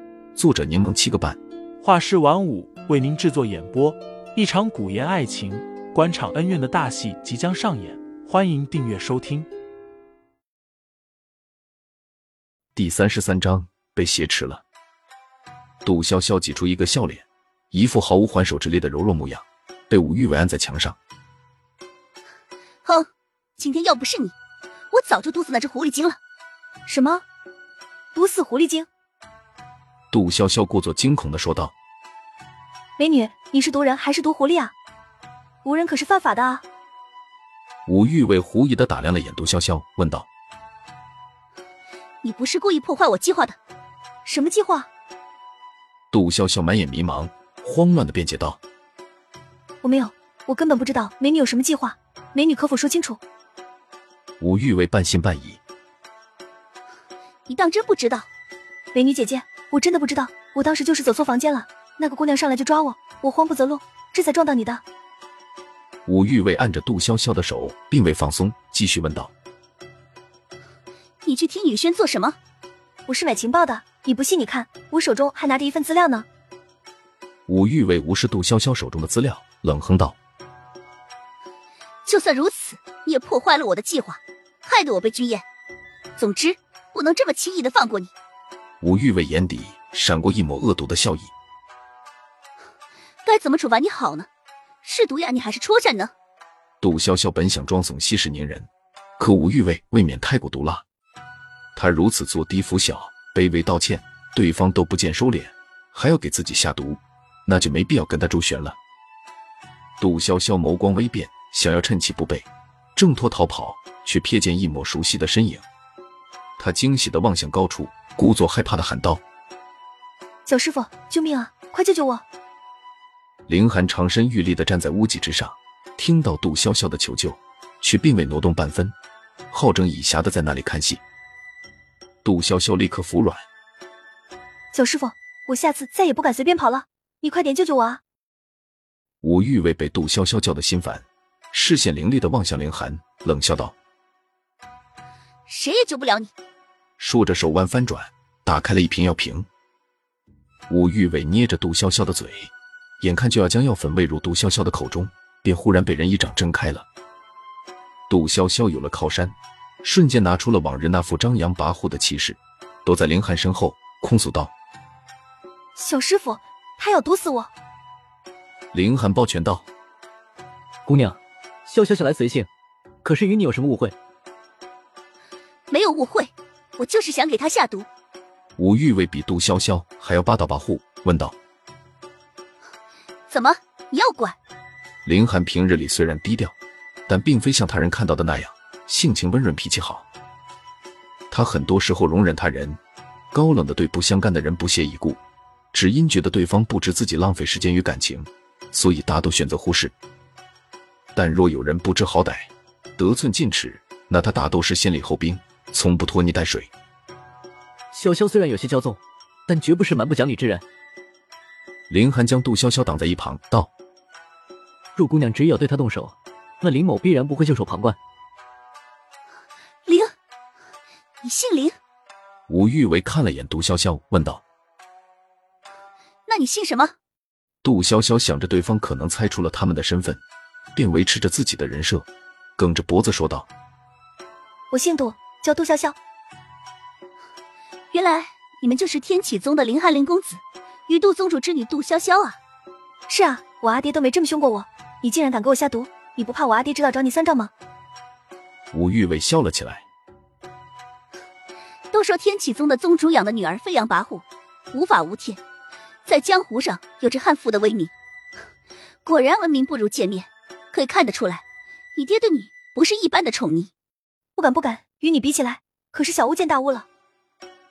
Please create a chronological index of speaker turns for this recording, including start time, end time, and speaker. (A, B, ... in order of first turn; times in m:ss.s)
0:00.4-0:01.4 A
0:01.8-0:09.5 B
0:12.7-0:14.6 A
0:15.8-0:21.0 A
0:22.8-0:24.3 C
0:24.9-0:26.2 C
0:26.9-0:27.2 D
0:28.1-0:28.9 D
0:30.1-0:31.7 A
0:33.0-0:34.7 D
0:35.6-0:36.6 D
0:37.9-0:40.3 A
0:42.2-0:43.6 C
0:44.2-0:44.9 D
0:46.1-0:48.6 A
0:49.8-0:53.2 D
0:54.4-0:55.6 A
0:57.5-0:58.3 C
0:58.9-1:04.8 D
1:06.0-1:09.3 A
1:11.2-1:12.4 C
1:13.1-1:16.2 D
1:17.5-1:20.2 A
1:22.0-1:25.4 C
1:26.2-1:28.1 C
1:28.8-1:31.3 A
1:33.2-1:34.3 C
1:34.8-1:36.1 C
1:36.8-1:40.8 A
1:41.8-1:48.8 A
1:50.0-1:55.6 A
1:56.6-1:59.2 A
2:00.4-2:02.2 D
2:03.5-2:08.9 A
2:09.5-2:11.0 A
2:12.2-2:13.4 A
2:14.7-2:18.0 D
2:19.2-2:23.7 A
2:25.5-2:26.3 C
2:27.0-2:29.5 A
2:30.7-2:36.8 A
2:38.1-2:44.5 A
2:45.8-2:47.5 D
2:48.7-2:49.7 A
2:50.8-2:52.5 E
2:53.0-2:54.0 E
2:55.7-2:57.9 C
2:58.6-3:01.4 A
3:03.3-3:04.4 C
3:05.0-3:06.5 A
3:07.1-3:10.0 A
3:11.3-3:12.8 A
3:13.3-3:15.2 A
3:15.7-3:19.9 A
3:21.1-3:26.7 A
3:27.9-3:30.6 E
3:31.9-3:33.7 A
3:35.0-3:38.0 E
3:39.8-3:40.1 C
3:41.2-3:41.8 C
3:42.5-3:44.4 A
3:46.3-3:46.9 C
3:47.6-3:50.2 A
3:50.7-3:53.5 A
3:54.7-3:56.0 D
3:57.9-4:02.4 C
4:03.1-4:07.5 D
4:08.7-4:09.8 A
4:11.9-4:15.4 C
4:16.0-4:17.9 C
4:19.0-4:21.4 C
4:22.0-4:23.7 C
4:24.4-4:26.8 D